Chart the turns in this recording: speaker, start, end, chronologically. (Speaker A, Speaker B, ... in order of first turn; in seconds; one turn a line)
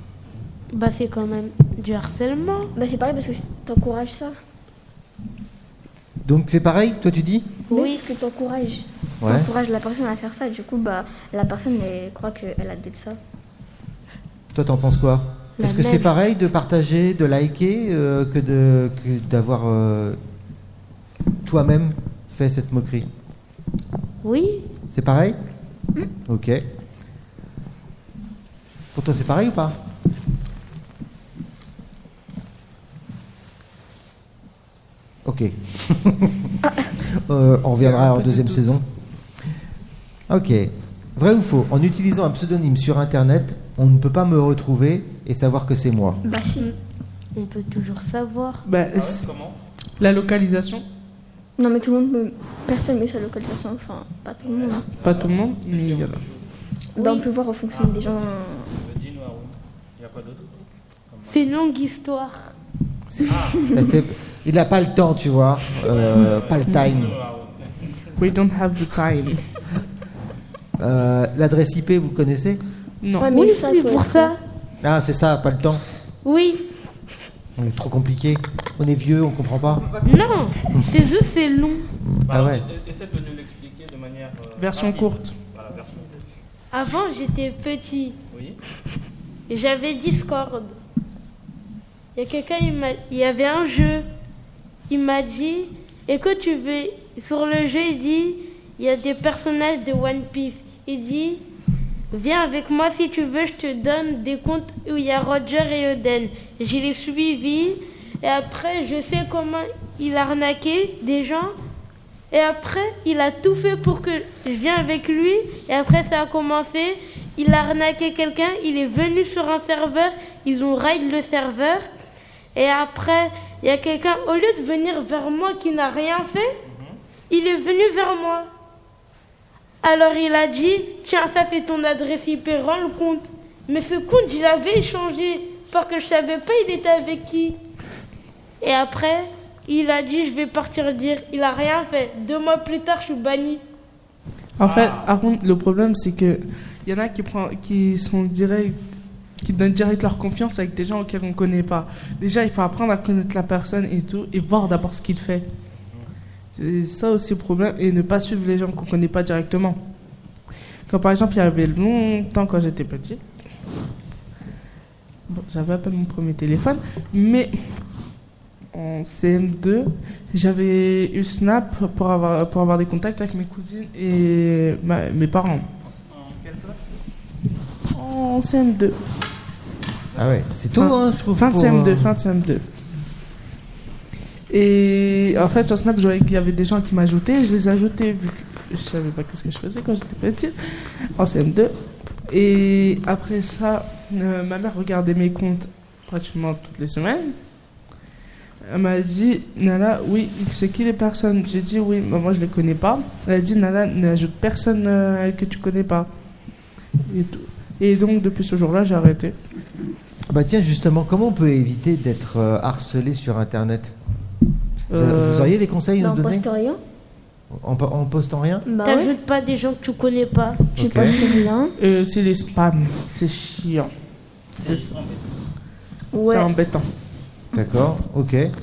Speaker A: 0.7-2.7
Speaker B: 2.8-4.4
Speaker C: 6.2-7.5
Speaker A: 7.7-8.0
Speaker B: 7.7-13.2
Speaker C: 9.2-9.5
Speaker C: 14.5-20.2
Speaker A: 15.6-16.1
Speaker C: 21.4-23.1
Speaker A: 24.2-24.7
Speaker C: 24.9-25.4
Speaker C: 26.3-26.6
Speaker C: 28.9-29.8
Speaker C: 35.2-38.9
Speaker D: 37.9-38.7
Speaker C: 40.3-46.2
Speaker B: 46.2-46.7
Speaker A: 47.4-48.6
Speaker D: 48.6-49.3
Speaker E: 48.9-49.6
Speaker D: 50.0-50.8
Speaker B: 51.6-54.9
Speaker E: 54.4-56.5
Speaker D: 55.0-56.2
Speaker B: 56.9-58.7
Speaker A: 57.0-57.2
Speaker E: 57.7-61.5
Speaker A: 61.3-62.5
Speaker E: 63.2-63.9
Speaker C: 63.2-67.2
Speaker E: 65.8-68.1
Speaker D: 68.2-69.4
Speaker C: 70.8-72.6
Speaker D: 73.0-73.3
Speaker B: 73.2-74.3
Speaker A: 73.3-74.4
Speaker C: 74.8-75.8
Speaker A: 76.2-76.7
Speaker C: 77.6-79.9
Speaker A: 80.0-81.9
Speaker C: 82.0-82.7
Speaker E: 82.3-86.3
Speaker D: 84.6-85.4
Speaker A: 86.7-88.2
Speaker E: 88.3-88.6
Speaker A: 89.5-90.8
Speaker A: 92.1-94.1
Speaker A: 94.9-101.4
Speaker A: 102.1-111.5
Speaker A: 112.3-121.9
Speaker A: 122.5-126.6
Speaker E: 126.7-127.0
Speaker A: 127.3-128.5
Speaker A: 129.8-137.6
Speaker A: 138.6-143.6
Speaker D: 144.6-148.8
Speaker E: 144.6-145.1
Speaker D: 149.4-155.5
Speaker D: 156.5-159.8
Speaker D: 160.9-163.2
Speaker D: 165.3-167.7
Speaker D: 168.7-175.7
Speaker E: 175.8-177.0
Speaker D: 177.9-179.0
Speaker C: 180.2-182.1
Speaker D: 180.8-182.6
Speaker D: 184.5-197.4
Speaker D: 198.6-206.1
Speaker D: 207.1-209.4
Speaker C: 210.3-214.0
Speaker D: 214.9-215.5
Speaker C: 214.9-216.5
Speaker B: 216.0-216.8
Speaker C: 217.5-218.6
Speaker B: 218.7-219.1
Speaker A: 218.8-220.6
Speaker C: 220.8-221.2
Speaker B: 220.8-221.8
Speaker D: 221.8-223.9
Speaker E: 224.6-225.4
Speaker B: 226.1-226.5
Speaker D: 226.2-226.9
Speaker C: 227.5-228.5